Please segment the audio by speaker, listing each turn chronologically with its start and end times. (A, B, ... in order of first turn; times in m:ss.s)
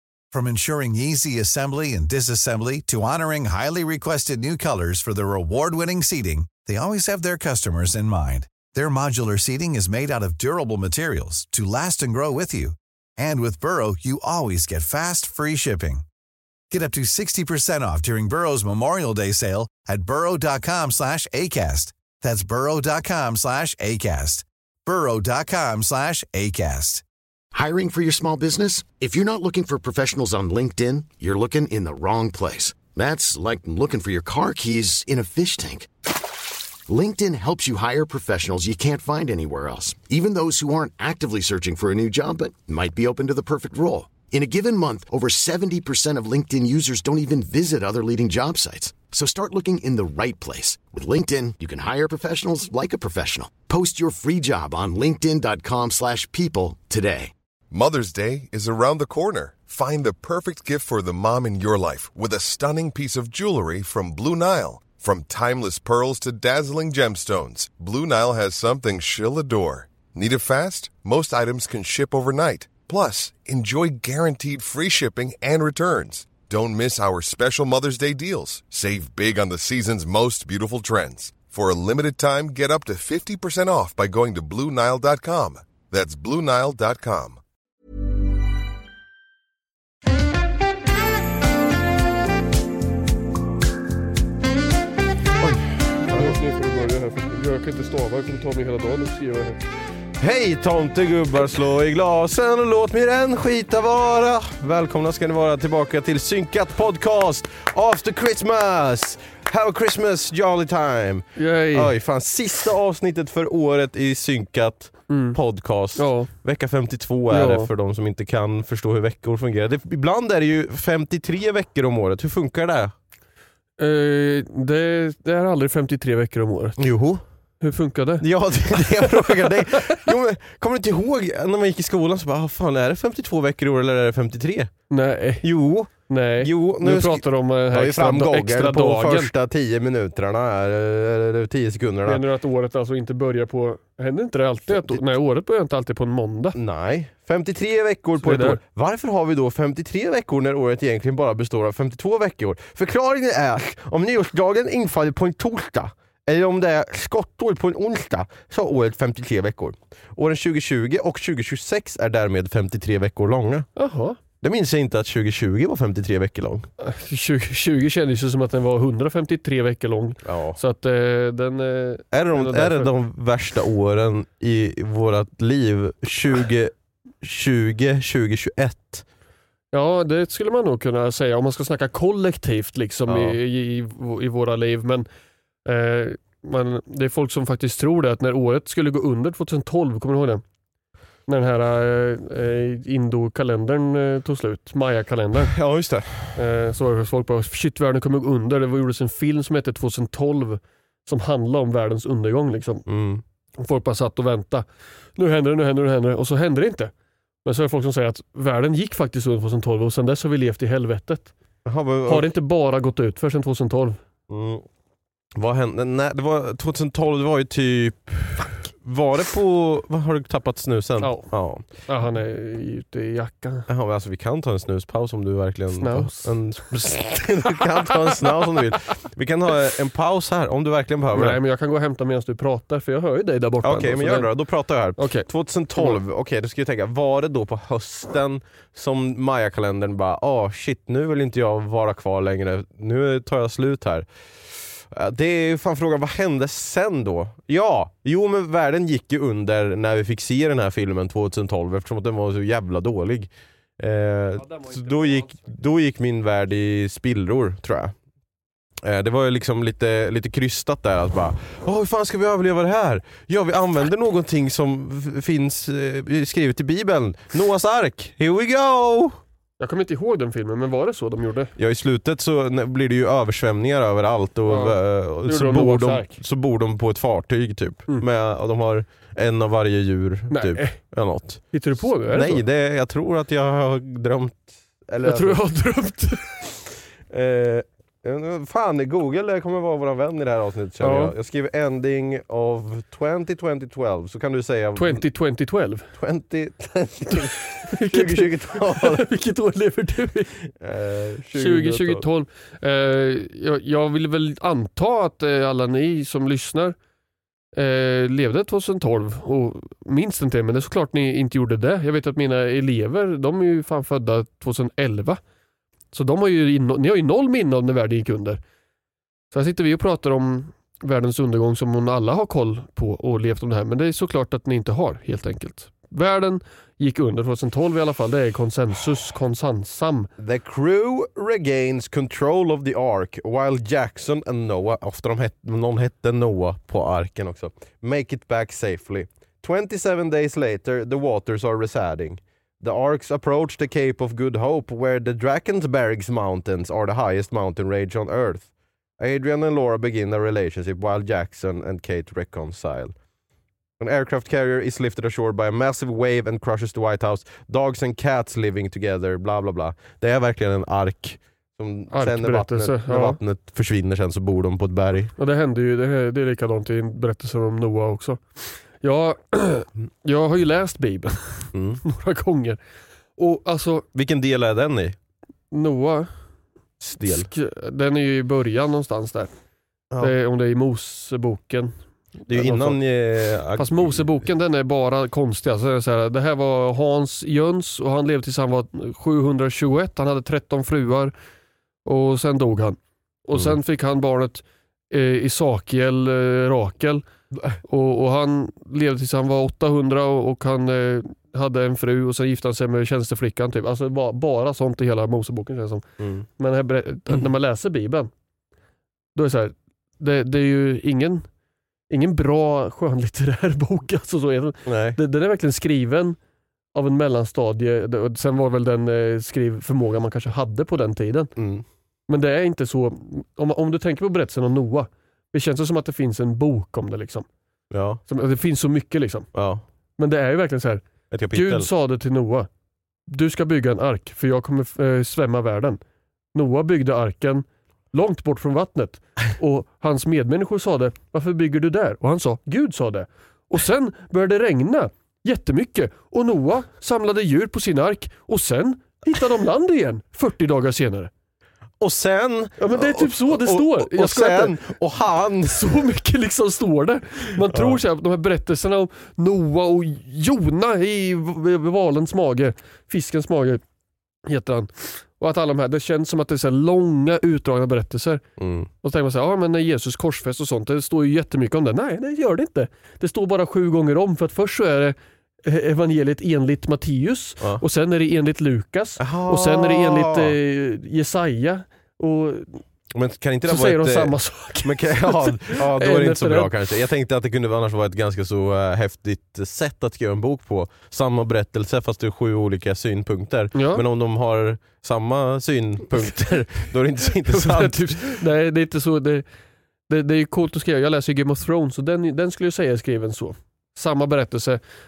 0:00.3-0:16.0 A
0:16.7-0:27.0 A
0:27.5-0:35.9 B
0:36.9-0:57.3 B
0:57.7-1:27.4 C
1:35.4-1:36.4 D
1:36.1-1:39.6 E
1:40.2-2:02.9 D
1:51.4-1:51.9 E
1:55.1-1:55.4 E
1:56.0-1:56.3 E
1:57.3-1:57.7 E
2:03.8-2:06.8 E
2:06.8-2:07.2 D
2:07.6-2:08.2 E
2:08.2-2:14.7 D
2:08.8-2:10.0 E
2:14.9-2:15.4 E
2:15.4-2:22.2 D
2:16.1-2:19.3 E
2:22.0-2:26.6 E
2:24.7-2:25.0 D
2:26.5-2:43.7 D
2:28.2-2:28.6 E
2:43.8-2:44.2 E
2:44.4-2:46.7 D
2:46.8-2:52.9 E
2:50.2-2:50.6 D
2:52.1-2:59.0 D
2:59.7-3:05.1 E
3:03.1-3:03.4 D
3:05.6-3:10.4 E
3:11.3-3:15.5 E
3:15.4-3:16.4 D
3:16.3-3:22.8 E
3:22.9-3:23.2 D
3:23.6-3:24.6 E
3:25.2-3:26.9 E
3:27.4-3:31.3 E
3:31.6-3:32.3 D
3:32.0-3:34.0 E
3:34.3-3:34.6 D
3:35.3-3:41.6 D
3:41.0-3:43.7 E
3:43.7-3:51.4 D
3:45.8-3:46.3 E
3:51.1-3:54.3 E
3:53.6-4:17.9 D
3:55.0-3:56.0 E
4:14.4-4:15.3 E
4:18.8-4:29.2 D
4:29.6-4:31.5 E
4:31.6-4:45.4 D
4:34.5-4:36.1 E
4:40.3-4:40.8 E
4:41.5-4:42.4 E
4:45.0-4:46.3 E
4:47.1-4:55.0 D
4:50.8-4:51.1 E
4:54.8-4:55.9 E
4:56.0-4:59.1 D
4:57.6-5:00.3 E
5:00.5-5:02.0 D
5:01.3-5:06.8 E
5:07.5-5:15.2 E
5:15.9-5:18.4 E
5:19.3-5:30.1 E
5:30.2-5:48.5 D
5:49.0-5:52.9 D
5:53.8-6:05.1 D
6:01.9-6:03.2 E
6:05.2-6:12.6 E
6:11.5-6:11.8 D
6:13.2-6:13.8 E
6:13.9-6:15.0 D
6:15.5-6:16.1 E
6:16.8-6:17.3 D
6:17.0-6:19.3 E
6:20.0-6:21.7 E
6:22.3-6:22.8 E
6:22.3-6:24.0 D
6:23.6-6:31.1 E
6:31.8-6:37.0 E
6:37.6-6:45.8 E
6:46.0-6:46.3 D
6:46.4-6:48.1 E
6:49.1-6:51.2 E
6:51.9-6:56.2 E
6:54.6-6:55.0 D
6:56.7-7:01.3 E
7:01.4-7:01.6 D
7:02.1-7:07.3 E
7:07.7-7:08.0 D
7:08.1-7:09.3 E
7:09.3-7:09.6 D
7:10.0-7:12.5 E
7:11.1-7:11.7 D
7:13.1-7:15.8 E
7:16.3-7:31.1 E
7:31.8-7:35.8 D
7:32.6-7:34.5 E
7:35.5-7:43.6 E
7:37.5-7:37.8 D
7:44.3-7:48.2 E
7:48.4-7:48.7 D
7:48.8-8:02.6 E
7:59.0-8:00.3 D
8:02.9-8:18.1 D
8:03.4-8:06.5 E
8:13.5-8:13.8 E
8:17.2-8:19.2 E
8:19.9-8:24.6 E